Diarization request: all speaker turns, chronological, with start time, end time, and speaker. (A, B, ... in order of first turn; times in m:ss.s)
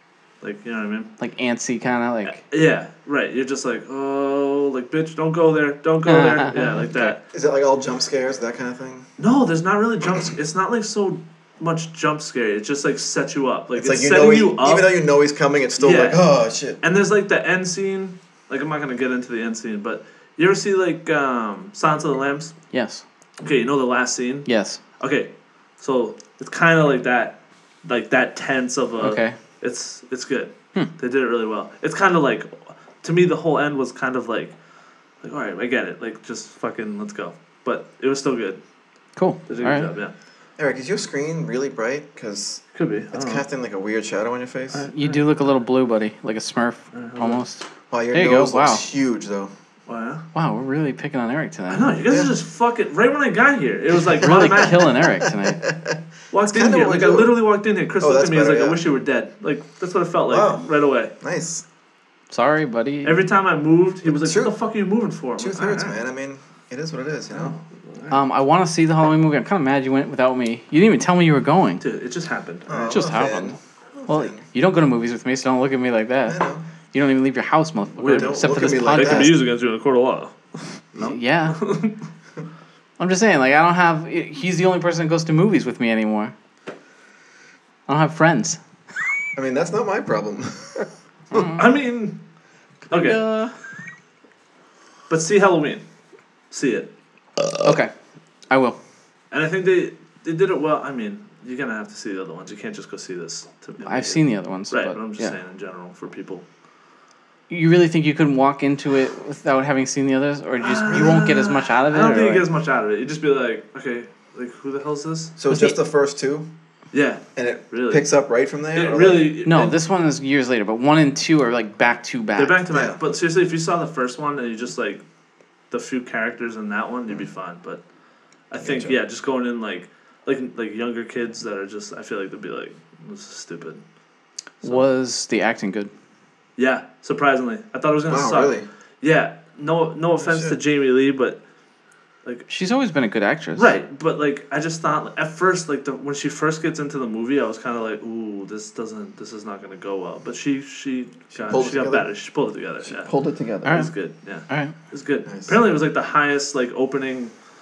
0:00.4-0:01.1 A
0:01.2-0:02.4 B
0:02.2-0:07.2 A
0:06.0-0:07.1 B
0:07.1-0:09.1 C
0:09.2-0:14.9 A
0:13.7-0:16.8 C
0:15.8-0:16.2 A
0:16.8-0:22.5 A
0:22.7-0:23.0 B
0:23.4-0:24.5 A
0:24.4-0:24.8 B
0:25.0-0:34.5 A
0:29.0-0:29.3 B
0:35.2-0:38.6 A
0:39.2-0:39.9 B
0:39.5-0:40.1 A
0:40.6-0:44.9 C
0:42.7-0:43.4 A
0:44.7-0:45.2 A
0:44.9-0:48.8 B
0:46.9-0:47.4 A
0:47.9-0:49.5 C
0:49.9-0:50.2 A
0:50.3-0:52.0 B
0:51.7-0:54.9 A
0:52.1-0:52.3 C
0:54.1-0:57.3 C
0:54.2-0:55.6 B
0:56.3-1:01.1 A
0:58.0-0:58.8 C
1:00.3-1:01.6 C
1:02.3-1:03.3 B
1:03.0-1:06.0 A
1:04.0-1:04.6 C
1:05.4-1:07.5 C
1:07.3-1:08.1 A
1:08.1-1:11.8 B
1:11.8-1:13.0 A
1:12.7-1:14.4 C
1:12.9-1:13.6 B
1:14.1-1:16.4 B
1:16.3-1:16.6 C
1:16.9-1:19.4 B
1:18.0-1:20.3 A
1:18.1-1:19.4 C
1:20.9-1:22.0 A
1:21.0-1:21.6 B
1:23.0-1:26.3 B
1:27.9-1:28.6 B
1:29.4-1:30.9 C
1:31.3-1:31.6 B
1:31.5-1:32.2 A
1:32.9-1:33.2 A
1:32.9-1:33.5 B
1:35.1-1:35.8 A
1:36.5-1:36.9 A
1:37.4-1:37.8 C
1:37.6-1:37.9 B
1:38.5-1:38.8 B
1:39.3-1:46.4 A
1:43.8-1:45.3 B
1:47.5-1:52.4 B
1:50.6-1:55.3 A
1:50.9-1:51.2 C
1:55.4-1:56.5 C
1:55.5-1:55.8 B
1:56.9-1:58.0 A
1:57.4-1:59.3 C
1:58.7-1:59.8 A
1:59.4-2:02.6 B
2:02.4-2:05.0 A
2:02.7-2:03.0 C
2:05.7-2:07.8 A
2:08.5-2:13.8 A
2:08.6-2:09.0 C
2:14.6-2:15.9 B
2:16.6-2:21.4 A
2:18.0-2:18.7 C
2:20.2-2:20.6 C
2:22.5-2:23.7 B
2:23.6-2:33.1 A
2:31.3-2:32.1 C
2:32.8-2:33.8 C
2:33.6-2:33.9 B
2:33.7-2:37.3 A
2:34.5-2:34.7 B
2:35.2-2:35.6 C